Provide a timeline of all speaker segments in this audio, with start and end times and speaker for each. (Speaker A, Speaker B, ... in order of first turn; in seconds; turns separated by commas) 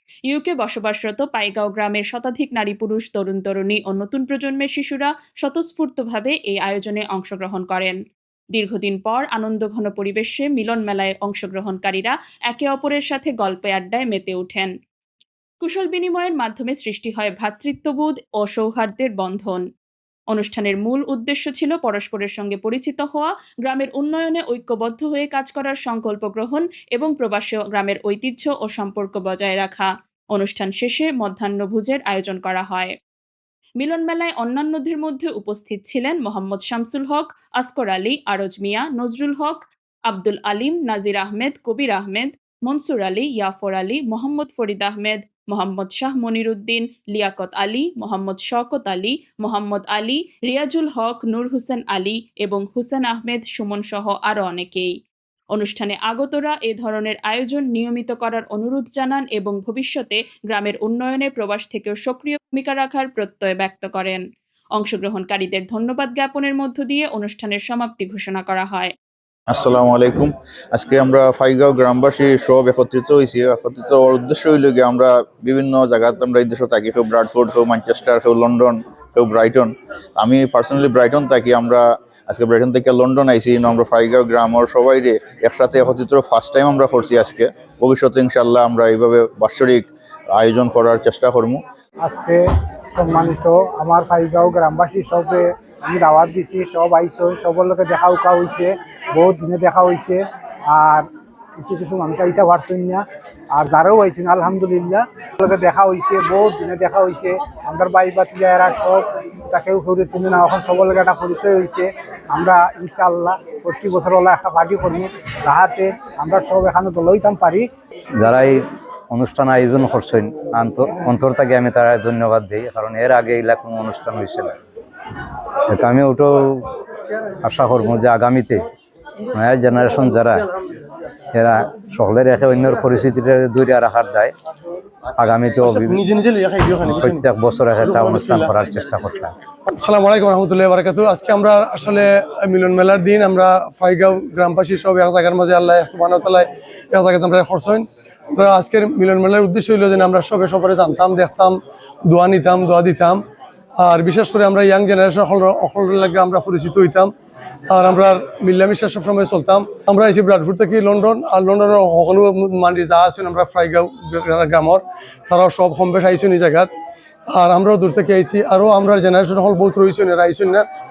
Speaker A: 0.3-8.0, Speaker A: 8.5-14.7, Speaker A: 15.6-19.6, Speaker A: 20.3-32.9, Speaker A: 33.8-54.9, Speaker A: 55.5-64.2, Speaker A: 64.8-68.9, Speaker B: 69.5-91.6, Speaker C: 92.0-101.1, Speaker C: 101.6-117.7, Speaker D: 118.2-124.6, Speaker D: 125.7-126.7, Speaker D: 127.4-128.7, Speaker D: 129.3-130.5, Speaker D: 131.3-134.3, Speaker D: 135.2-136.0, Speaker E: 135.7-137.2, Speaker D: 136.8-139.3, Speaker E: 137.9-138.5, Speaker E: 139.7-153.2, Speaker E: 153.8-157.1, Speaker E: 157.7-166.7, Speaker E: 167.3-170.7